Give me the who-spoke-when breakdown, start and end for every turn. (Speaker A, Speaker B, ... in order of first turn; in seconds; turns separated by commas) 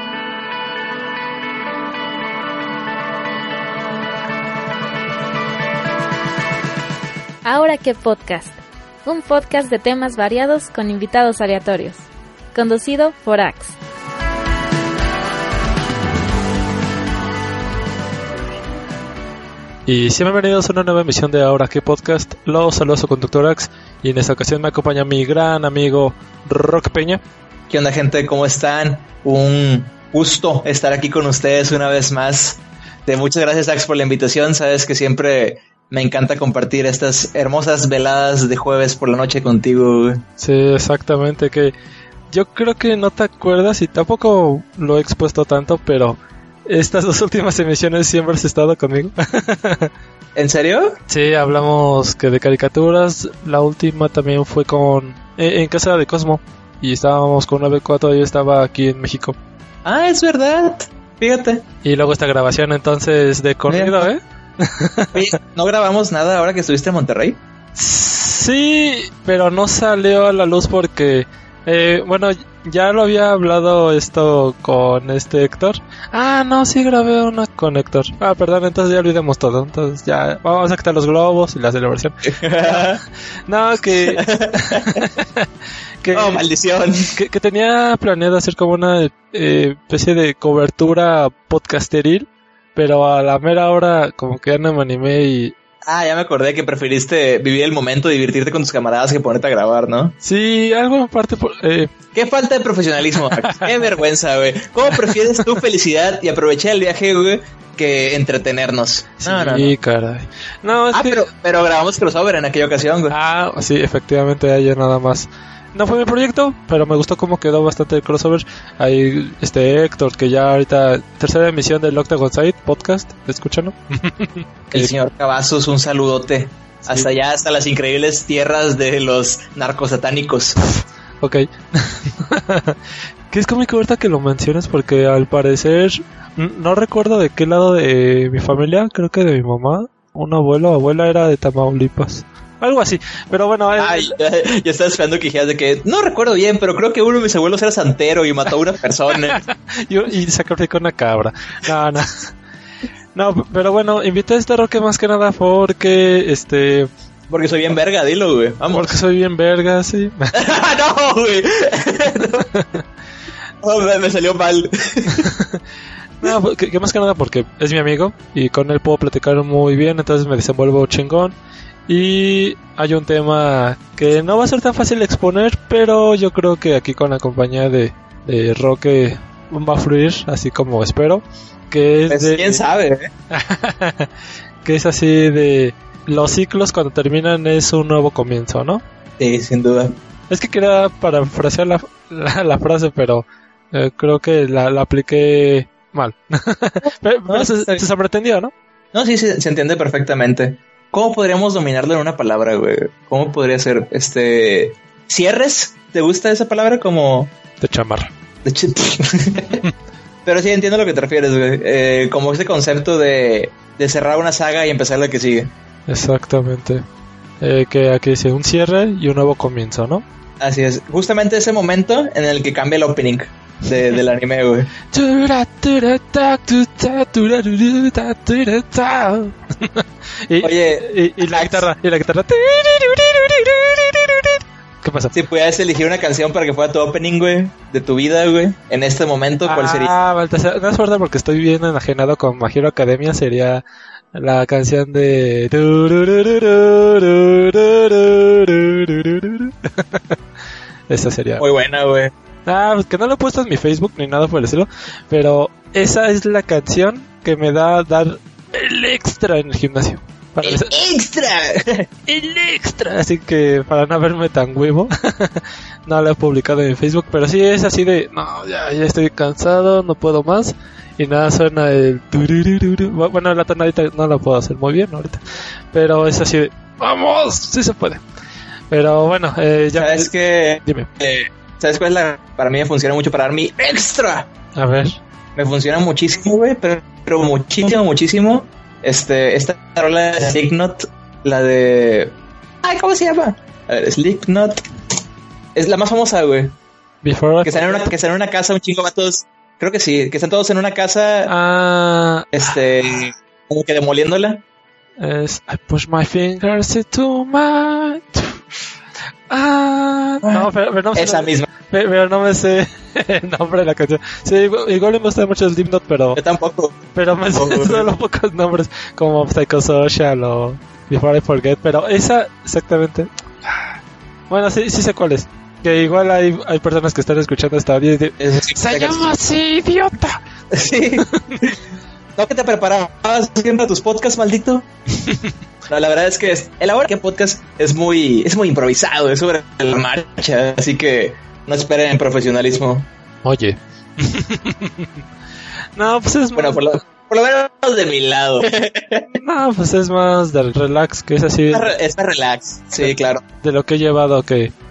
Speaker A: 7.5-13.8, Speaker B: 19.9-27.2, Speaker C: 27.7-40.2, Speaker B: 40.4-41.7, Speaker B: 42.3-49.9, Speaker C: 50.4-51.0, Speaker B: 51.1-59.4, Speaker C: 59.9-61.6, Speaker B: 61.8-65.2, Speaker C: 63.7-64.1, Speaker C: 65.1-67.4, Speaker B: 67.8-82.9, Speaker C: 82.2-83.0, Speaker B: 83.5-85.5, Speaker C: 84.0-85.0, Speaker B: 86.0-86.4, Speaker C: 86.1-87.1, Speaker B: 87.2-95.5, Speaker C: 95.8-100.2, Speaker B: 100.2-101.9, Speaker C: 102.1-109.7, Speaker B: 103.4-103.7, Speaker B: 105.1-105.6, Speaker B: 109.2-111.2, Speaker C: 110.9-113.2, Speaker B: 113.1-124.9, Speaker C: 124.7-130.6, Speaker B: 131.2-132.8, Speaker B: 133.3-144.1, Speaker C: 143.8-149.4, Speaker B: 149.3-152.3, Speaker B: 153.2-156.9, Speaker C: 157.3-158.9, Speaker B: 158.7-160.4, Speaker C: 160.3-162.5, Speaker B: 162.5-162.8, Speaker C: 163.6-165.3, Speaker B: 165.2-165.6, Speaker B: 166.2-171.4, Speaker B: 171.9-182.6, Speaker C: 182.1-183.1, Speaker B: 183.3-184.1, Speaker B: 184.6-188.8, Speaker C: 189.2-190.0, Speaker B: 190.3-198.5, Speaker C: 197.3-197.8, Speaker C: 198.9-207.3, Speaker B: 207.6-208.1, Speaker C: 208.4-209.6, Speaker C: 210.3-215.5, Speaker B: 215.9-216.8, Speaker B: 217.4-220.1, Speaker C: 220.4-224.7, Speaker B: 224.9-235.1, Speaker C: 230.4-231.7, Speaker C: 235.1-239.9, Speaker B: 239.5-243.6, Speaker B: 244.1-250.2, Speaker B: 250.9-251.4, Speaker C: 251.4-252.1, Speaker B: 252.5-260.7, Speaker C: 260.4-261.9, Speaker B: 262.1-275.2, Speaker B: 275.7-278.0, Speaker B: 278.7-280.1, Speaker C: 279.8-284.3, Speaker B: 280.6-280.9, Speaker B: 284.6-285.0, Speaker C: 285.4-294.6, Speaker C: 295.6-296.6, Speaker B: 297.0-297.9, Speaker C: 297.4-301.3, Speaker B: 301.3-302.3, Speaker C: 302.3-304.4, Speaker B: 305.0-308.4, Speaker B: 309.3-316.2, Speaker C: 310.2-311.5, Speaker C: 316.1-317.9, Speaker B: 316.9-323.8, Speaker B: 324.3-330.2, Speaker C: 328.2-329.1, Speaker C: 330.5-331.6, Speaker B: 331.0-331.4, Speaker C: 332.2-334.7, Speaker C: 335.7-342.9, Speaker B: 343.2-344.9, Speaker B: 345.8-346.8, Speaker C: 346.4-349.2, Speaker B: 349.2-351.7, Speaker C: 351.5-353.2, Speaker B: 352.8-354.5